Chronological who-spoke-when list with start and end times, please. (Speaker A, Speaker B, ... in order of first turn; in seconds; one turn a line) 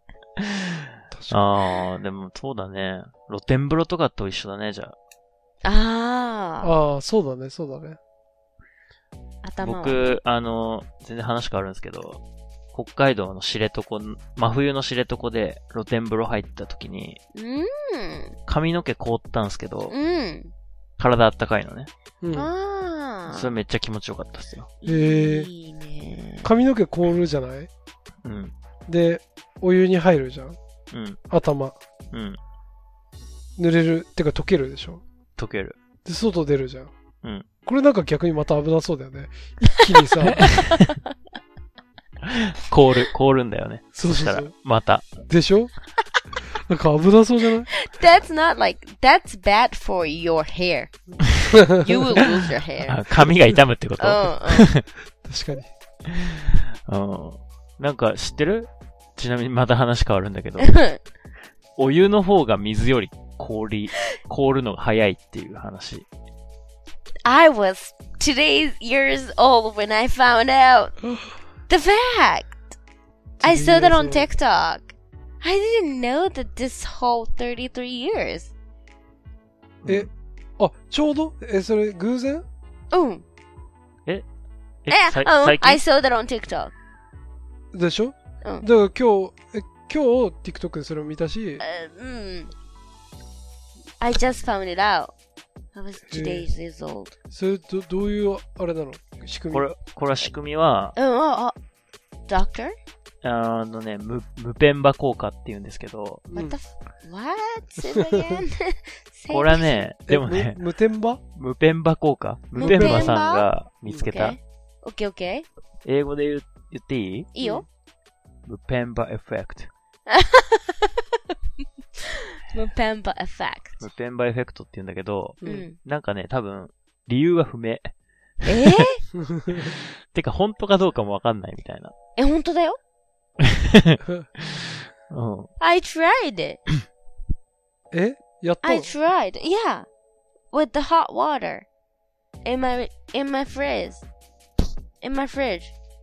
Speaker A: 0.4-5.0
Speaker B: 1.1-1.4
Speaker C: 5.6-6.7
Speaker B: 6.6-8.0
Speaker C: 9.4-10.2
Speaker A: 9.6-12.2
Speaker A: 12.7-17.2
Speaker C: 17.3-18.4
Speaker A: 18.5-19.9
Speaker C: 19.9-20.5
Speaker A: 21.0-21.9
Speaker B: 22.2-22.5
Speaker C: 22.3-23.5
Speaker A: 23.3-24.7
Speaker C: 24.8-26.5
Speaker B: 24.9-25.5
Speaker B: 26.4-27.7
Speaker A: 28.2-28.5
Speaker B: 28.9-30.6
Speaker A: 30.9-31.2
Speaker B: 31.3-31.8
Speaker A: 32.1-32.4
Speaker B: 33.6-35.0
Speaker A: 35.4-35.8
Speaker B: 36.0-36.9
Speaker B: 37.6-40.5
Speaker A: 40.3-40.6
Speaker C: 40.4-40.9
Speaker A: 42.2-45.2
Speaker B: 43.9-44.5
Speaker B: 45.3-45.7
Speaker B: 46.5-47.7
Speaker C: 47.7-50.9
Speaker C: 51.7-53.0
Speaker A: 52.9-54.9
Speaker C: 54.0-54.7
Speaker B: 55.2-55.7
Speaker A: 56.1-60.9
Speaker C: 60.6-61.0
Speaker A: 61.8-66.0
Speaker C: 67.2-71.0
Speaker C: 71.7-72.6
Speaker B: 73.4-74.3
Speaker C: 73.4-78.5
Speaker A: 79.8-80.1
Speaker B: 79.8-82.5
Speaker C: 82.9-83.2
Speaker A: 84.8-85.8
Speaker C: 84.9-86.7
Speaker B: 87.7-91.6
Speaker C: 91.6-92.5
Speaker C: 94.0-95.1
Speaker C: 95.7-97.1
Speaker B: 96.1-96.5
Speaker B: 97.3-99.7
Speaker A: 99.5-101.0
Speaker C: 101.0-101.5
Speaker C: 102.3-102.7
Speaker A: 103.2-106.2
Speaker B: 106.3-106.6
Speaker C: 106.3-109.9
Speaker A: 109.3-110.6
Speaker B: 110.1-111.2
Speaker A: 111.3-114.4
Speaker C: 112.5-113.5
Speaker B: 112.6-113.2
Speaker C: 114.0-115.5
Speaker A: 115.8-117.3
Speaker C: 117.3-117.6
Speaker A: 118.5-119.7
Speaker C: 120.1-121.0
Speaker C: 122.1-123.8
Speaker A: 123.8-127.9
Speaker C: 125.4-125.8
Speaker A: 128.4-128.8
Speaker C: 128.4-129.0
Speaker B: 129.2-129.7
Speaker A: 129.6-131.9
Speaker C: 132.2-132.8
Speaker A: 133.4-135.5
Speaker C: 135.6-136.6
Speaker B: 137.9-138.9
Speaker C: 138.6-139.8
Speaker C: 140.5-141.7
Speaker C: 142.4-144.0
Speaker C: 145.0-145.7